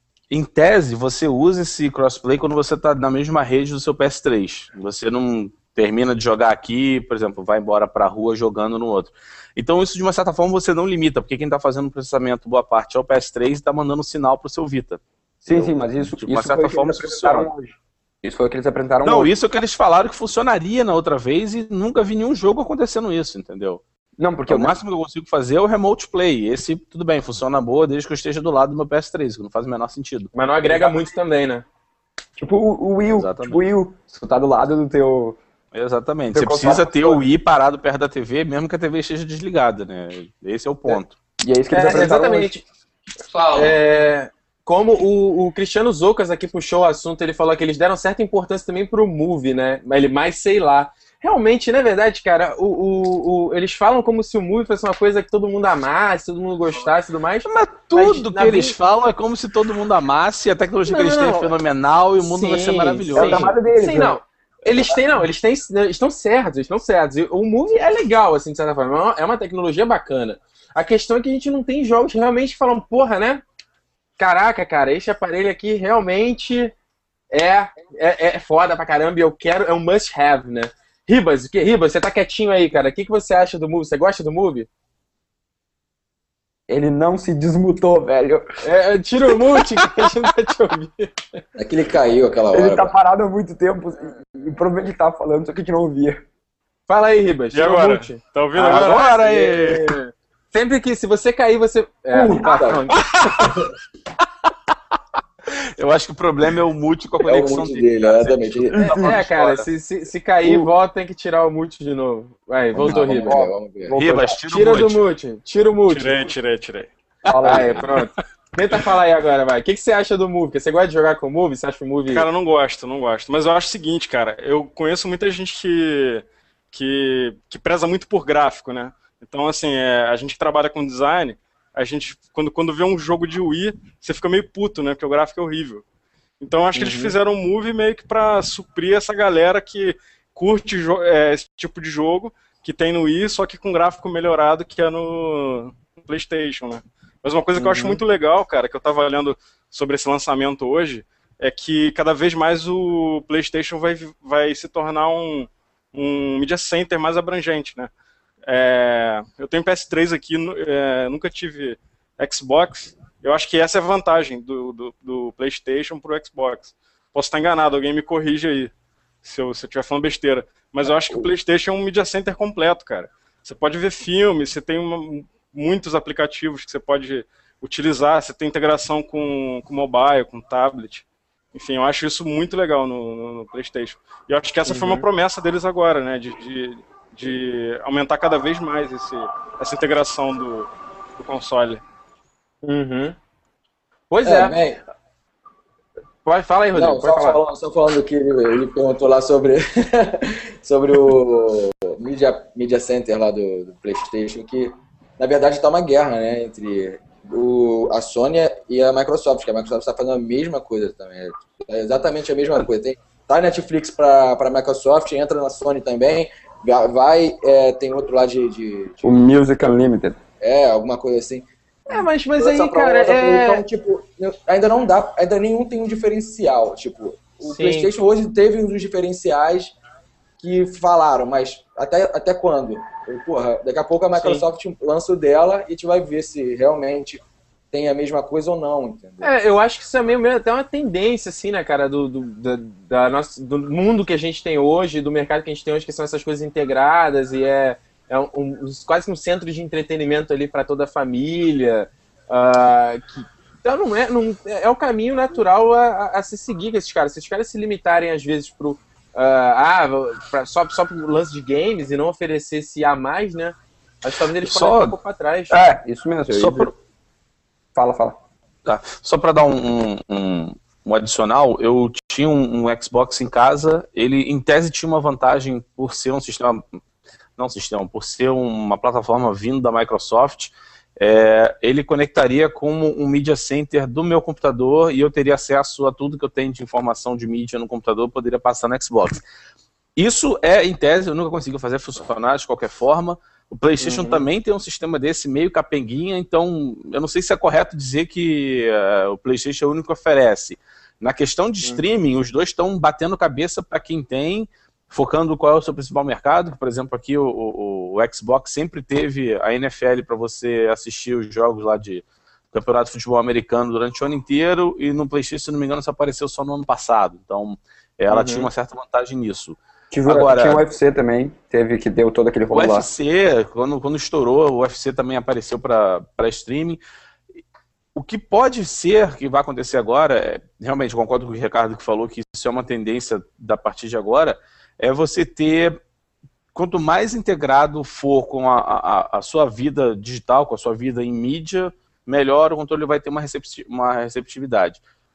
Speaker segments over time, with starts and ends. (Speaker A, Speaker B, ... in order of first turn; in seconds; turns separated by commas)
Speaker A: 0.3-17.5, Speaker B: 15.4-19.3, Speaker A: 19.0-23.8, Speaker B: 24.2-24.8, Speaker A: 24.5-30.3, Speaker C: 30.3-31.6, Speaker B: 30.7-30.9, Speaker B: 32.4-35.4, Speaker A: 33.1-33.7, Speaker A: 35.7-41.1, Speaker B: 36.3-37.2, Speaker B: 40.9-42.5, Speaker C: 41.7-42.6, Speaker D: 43.3-43.8, Speaker C: 43.5-58.7, Speaker A: 57.5-63.5, Speaker C: 60.9-61.5, Speaker C: 62.2-73.4, Speaker B: 63.1-65.0, Speaker C: 74.2-76.7, Speaker C: 77.3-84.7, Speaker B: 86.7-88.6, Speaker C: 88.6-91.2, Speaker D: 91.6-92.9, Speaker B: 92.5-96.2, Speaker C: 96.9-103.6, Speaker E: 97.5-99.1, Speaker A: 98.6-100.0, Speaker D: 102.1-102.9, Speaker A: 105.5-109.7, Speaker D: 107.2-108.9, Speaker C: 108.8-113.5, Speaker B: 108.8-109.1, Speaker B: 110.4-110.7, Speaker D: 112.8-113.9, Speaker B: 112.8-114.4, Speaker A: 113.9-115.0, Speaker C: 114.5-116.3, Speaker E: 115.9-116.9, Speaker B: 117.3-117.9, Speaker C: 117.4-122.3, Speaker E: 122.1-135.8, Speaker E: 136.4-157.9, Speaker C: 136.8-137.2, Speaker C: 147.6-148.0, Speaker E: 158.5-168.7, Speaker E: 169.2-191.8, Speaker C: 184.7-185.1, Speaker C: 192.6-193.2, Speaker C: 194.1-194.6, Speaker D: 194.2-194.8, Speaker C: 196.2-197.4, Speaker D: 196.7-219.2, Speaker B: 219.0-220.2, Speaker D: 220.4-229.8, Speaker C: 221.9-223.6, Speaker C: 227.4-227.9, Speaker D: 230.4-239.3, Speaker C: 234.2-234.4, Speaker C: 239.2-265.6, Speaker A: 264.4-265.0, Speaker A: 265.5-266.7, Speaker B: 265.8-266.7, Speaker B: 267.8-268.2, Speaker A: 268.6-276.6, Speaker A: 277.4-289.2, Speaker A: 290.0-320.6, Speaker C: 293.8-294.3, Speaker C: 318.1-318.5, Speaker B: 319.9-322.9, Speaker A: 322.5-326.8, Speaker A: 327.9-335.8, Speaker A: 336.5-344.8